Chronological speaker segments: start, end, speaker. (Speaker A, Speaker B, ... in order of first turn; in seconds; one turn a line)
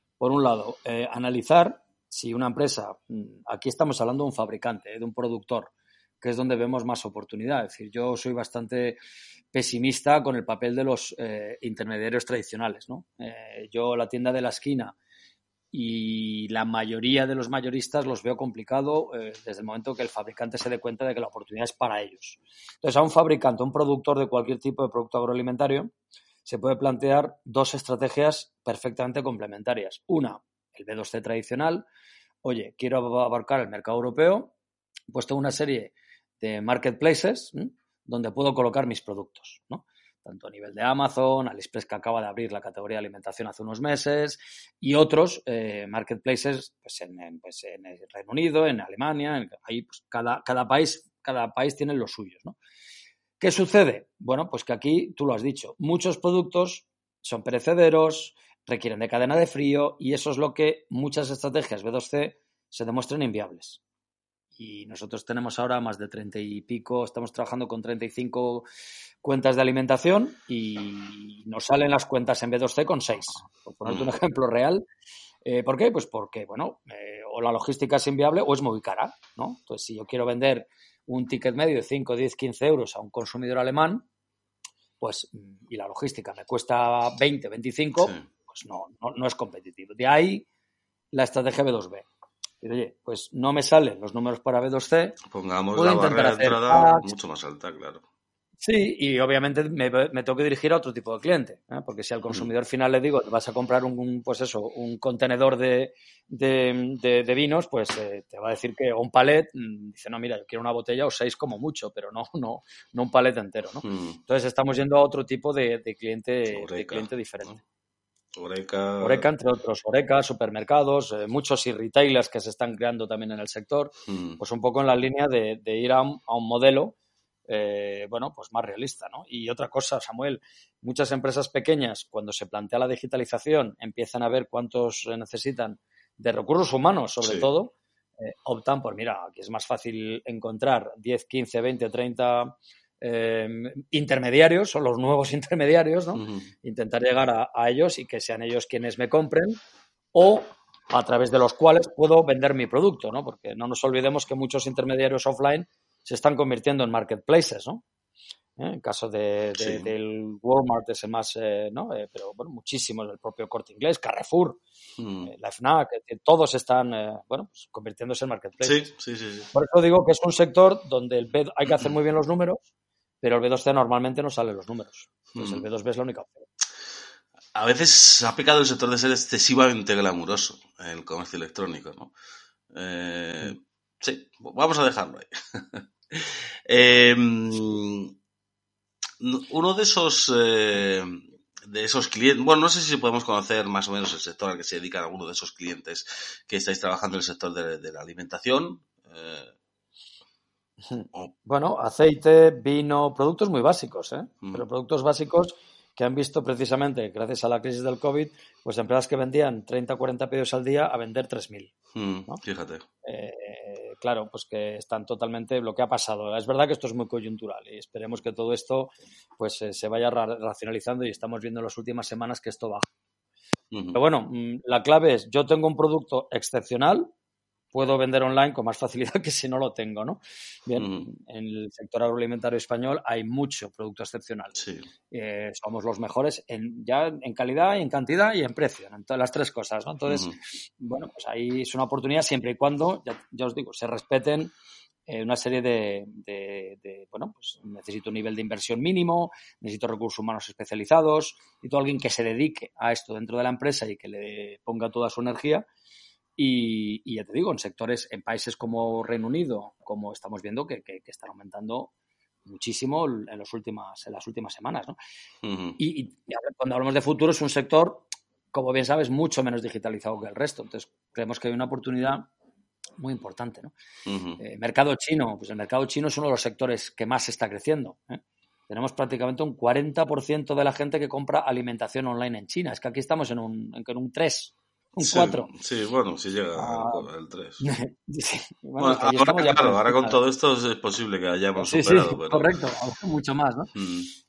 Speaker A: 0.2-9.0
Speaker A: 9.5-14.9
Speaker A: 15.7-25.9
Speaker A: 26.4-31.9
Speaker A: 32.4-34.5
Speaker A: 35.1-52.6
Speaker A: 53.4-63.8
Speaker A: 64.6-68.7
Speaker A: 69.2-74.8
Speaker B: 73.8-74.1
Speaker A: 75.4-84.0
Speaker A: 85.0-90.5
Speaker B: 88.0-88.2
Speaker A: 91.1-92.0
Speaker A: 92.6-95.2
Speaker B: 95.3-98.0
Speaker A: 95.7-97.1
Speaker A: 98.6-117.6
Speaker B: 113.8-114.2
Speaker B: 116.5-117.6
Speaker B: 118.3-119.3
Speaker A: 119.0-126.9
Speaker B: 124.1-124.4
Speaker A: 127.5-149.6
Speaker B: 137.2-137.5
Speaker B: 146.1-146.5
Speaker A: 150.1-157.8
Speaker A: 158.6-164.6
Speaker B: 159.6-159.9
Speaker B: 165.0-165.3
Speaker A: 165.2-168.9
Speaker B: 168.6-169.5
Speaker A: 169.5-172.7
Speaker A: 173.2-176.5
Speaker B: 175.3-175.6
Speaker B: 177.5-182.1
Speaker B: 182.7-188.1
Speaker B: 189.2-199.5
Speaker A: 200.9-211.7
Speaker B: 211.9-212.8
Speaker A: 213.0-222.9
Speaker B: 223.7-224.0
Speaker A: 223.9-227.1
Speaker A: 227.7-234.5
Speaker B: 230.8-231.1
Speaker B: 234.5-234.9
Speaker A: 235.1-244.5
Speaker B: 240.1-240.3
Speaker A: 245.1-255.6
Speaker A: 256.4-261.9
Speaker A: 262.4-265.0
Speaker B: 265.4-265.8
Speaker A: 265.8-272.3
Speaker A: 273.0-273.7
Speaker B: 274.1-274.4
Speaker A: 274.4-285.5
Speaker B: 285.0-287.6
Speaker A: 286.5-287.1
Speaker A: 287.6-290.2
Speaker B: 288.8-292.5
Speaker A: 291.6-293.7
Speaker B: 293.7-294.1